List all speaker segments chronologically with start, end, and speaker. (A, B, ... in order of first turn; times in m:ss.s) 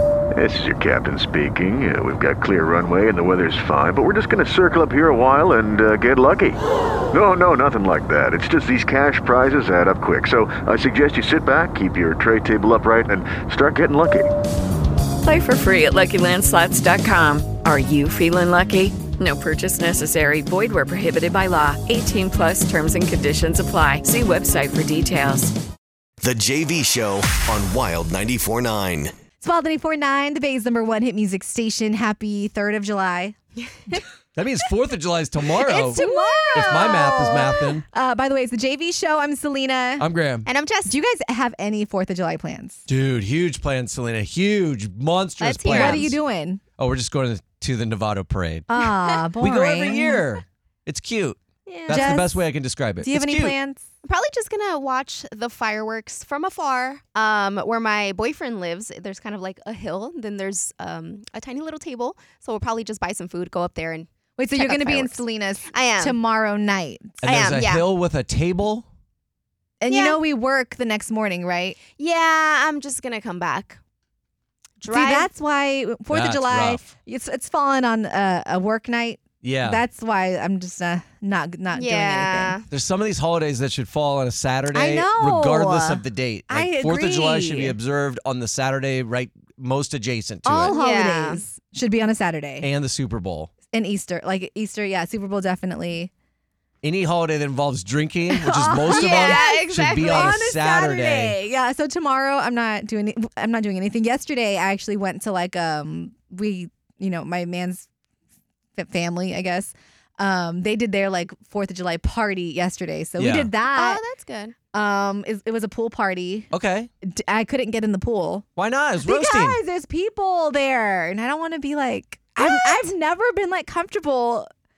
0:00.3-0:06.6 A
0:07.1-0:14.3 A
0:15.2-0:25.5 B
0:26.2-0:29.1 C
0:29.4-0:33.4 D
0:33.6-0:34.0 E
0:34.3-0:36.0 F
0:35.6-0:40.1 D
0:35.8-0:37.6 E
0:36.5-0:37.8 F
0:40.0-0:40.5 F
0:40.4-0:40.9 E
0:40.9-0:42.8 D
0:42.9-0:46.2 F
0:45.4-0:46.1 E
0:45.7-0:46.6 D
0:46.8-0:48.7 F
0:48.7-0:50.2 D
0:49.4-0:53.6 F
0:51.7-0:52.0 E
0:51.9-0:52.4 D
0:53.0-0:53.8 D
0:54.0-1:06.2 E
1:04.4-1:07.2 D
1:07.2-1:08.9 F
1:07.2-1:07.8 E
1:09.8-1:11.8 D
1:09.9-1:10.2 E
1:11.9-1:13.8 E
1:14.8-1:15.3 E
1:14.9-1:22.6 D
1:16.1-1:16.9 F
1:19.4-1:19.8 F
1:21.7-1:22.6 E
1:22.7-1:30.7 F
1:24.7-1:27.8 D
1:30.4-1:32.7 D
1:30.7-1:31.4 E
1:32.6-1:33.5 F
1:33.7-1:36.1 D
1:36.8-1:41.4 F
1:38.3-1:47.9 D
1:38.9-1:40.4 E
1:48.8-1:54.0 D
1:53.2-1:53.5 F
1:53.7-1:54.6 E
1:54.7-1:56.5 D
1:56.5-1:56.9 F
1:57.0-1:58.4 D
1:58.6-1:59.6 F
1:59.0-2:04.5 D
2:02.4-2:02.9 E